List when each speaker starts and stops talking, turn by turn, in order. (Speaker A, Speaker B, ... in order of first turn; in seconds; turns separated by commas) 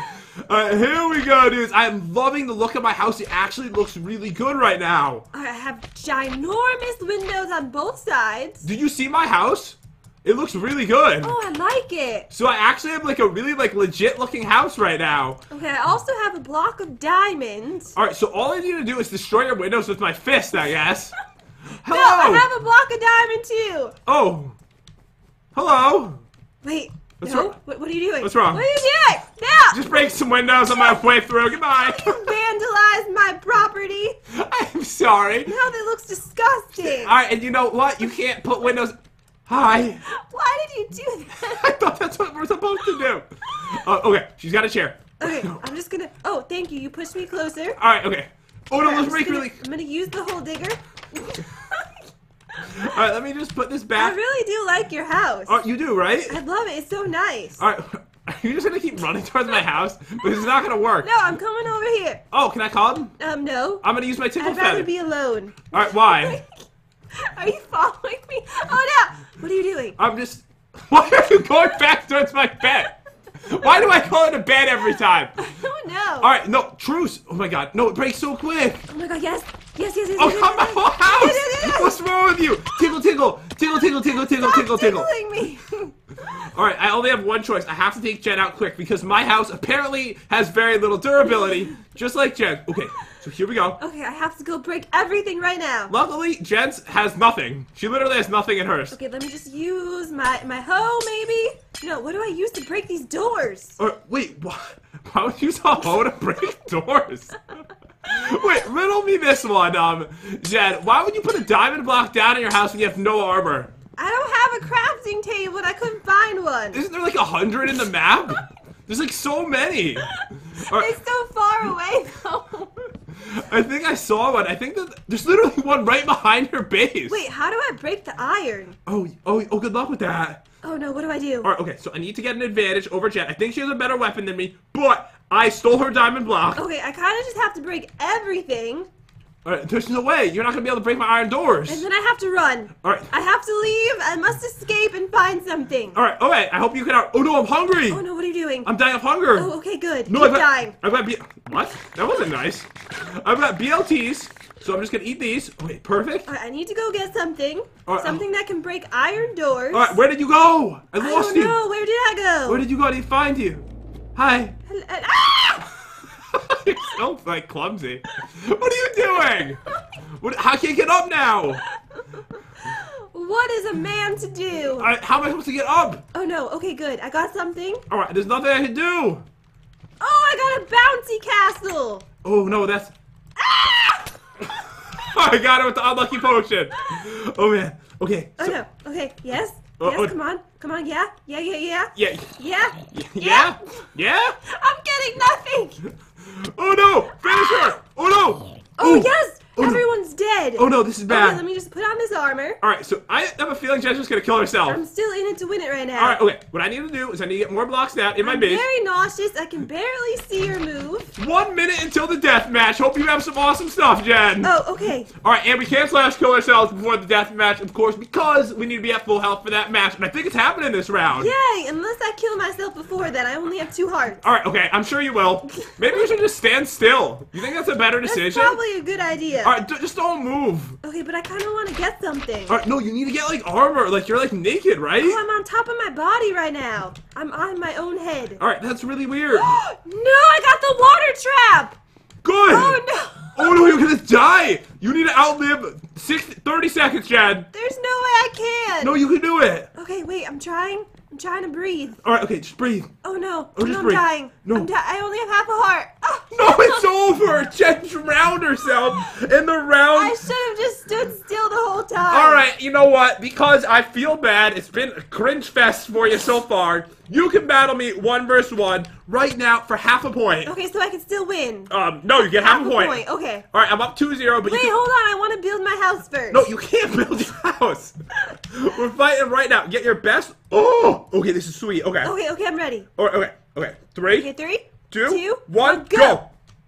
Speaker A: 0.4-5.2, Speaker B: 5.3-8.7, Speaker A: 8.6-11.3, Speaker B: 11.2-12.3, Speaker A: 12.3-15.4, Speaker B: 15.5-17.9, Speaker A: 17.9-21.1, Speaker A: 21.8-22.5, Speaker B: 21.9-23.9, Speaker A: 24.1-24.6, Speaker A: 25.5-26.2, Speaker B: 26.6-29.9, Speaker A: 27.2-27.5, Speaker A: 28.2-28.6, Speaker A: 29.7-32.4, Speaker B: 30.6-31.0, Speaker B: 31.7-34.2, Speaker A: 34.3-35.5, Speaker B: 35.5-37.1, Speaker A: 36.8-40.0, Speaker B: 40.0-41.6, Speaker A: 41.4-45.6, Speaker B: 45.2-47.8, Speaker A: 47.8-49.6, Speaker B: 48.8-51.9, Speaker A: 52.6-54.2, Speaker B: 54.0-55.6, Speaker A: 55.5-56.4, Speaker B: 56.3-57.6, Speaker A: 57.6-61.1, Speaker B: 61.0-62.2, Speaker A: 62.3-63.1, Speaker B: 63.2-63.8, Speaker A: 63.8-64.9, Speaker B: 64.4-66.5, Speaker A: 65.7-66.4, Speaker B: 67.1-70.0, Speaker A: 70.0-72.9, Speaker A: 73.4-75.3, Speaker B: 75.4-76.3, Speaker A: 76.2-78.9, Speaker B: 78.9-82.0, Speaker A: 80.2-85.1, Speaker B: 84.3-85.9, Speaker A: 86.3-93.8, Speaker B: 93.8-95.9, Speaker A: 95.9-98.9, Speaker B: 98.9-103.8, Speaker A: 103.8-113.7, Speaker B: 114.0-116.8, Speaker A: 116.7-120.9, Speaker B: 120.2-122.7, Speaker A: 123.3-127.2, Speaker B: 127.1-128.8, Speaker A: 128.8-130.4, Speaker B: 130.6-131.5, Speaker A: 131.4-136.6, Speaker B: 136.5-138.9, Speaker A: 139.4-141.8, Speaker B: 141.7-146.0, Speaker A: 142.8-143.1, Speaker A: 145.9-148.0, Speaker B: 147.9-148.7, Speaker A: 148.6-149.5, Speaker B: 149.3-150.8, Speaker A: 150.1-156.3, Speaker B: 156.3-160.0, Speaker A: 157.9-158.2, Speaker A: 159.7-161.6, Speaker B: 161.0-162.7, Speaker A: 162.5-164.6, Speaker B: 164.7-165.7, Speaker A: 166.1-169.6, Speaker A: 170.1-171.6, Speaker B: 171.9-174.9, Speaker A: 174.7-176.0, Speaker B: 176.1-177.8, Speaker A: 177.9-179.2, Speaker B: 180.0-182.0, Speaker A: 182.2-182.9, Speaker B: 183.4-184.1, Speaker A: 184.4-188.6, Speaker B: 188.4-193.8, Speaker A: 189.8-190.1, Speaker A: 191.9-194.4, Speaker B: 194.4-195.8, Speaker A: 196.2-199.8, Speaker B: 197.3-197.8, Speaker B: 198.8-202.6, Speaker A: 200.6-201.4, Speaker A: 202.6-204.8, Speaker B: 204.7-206.2, Speaker A: 205.9-208.7, Speaker B: 208.2-211.1, Speaker A: 211.2-214.5, Speaker B: 214.4-215.1, Speaker A: 215.1-221.3, Speaker B: 221.1-224.2, Speaker A: 224.2-228.6, Speaker B: 225.7-225.9, Speaker B: 228.0-229.6, Speaker A: 229.4-230.8, Speaker B: 230.8-232.6, Speaker A: 232.5-235.2, Speaker B: 235.0-238.4, Speaker A: 238.4-239.6, Speaker B: 239.3-241.8, Speaker A: 242.2-242.8, Speaker B: 242.5-243.7, Speaker A: 243.3-247.5, Speaker B: 247.5-249.0, Speaker A: 248.8-249.7, Speaker B: 249.7-252.0, Speaker A: 252.0-252.9, Speaker B: 253.0-256.8, Speaker A: 253.6-254.7, Speaker A: 256.3-260.2, Speaker B: 259.9-262.4, Speaker A: 262.1-270.5, Speaker B: 270.4-273.4, Speaker A: 271.7-274.7, Speaker B: 274.4-276.4, Speaker A: 276.3-282.1, Speaker B: 282.0-282.9, Speaker A: 283.0-284.3, Speaker B: 284.1-286.2, Speaker A: 284.9-286.3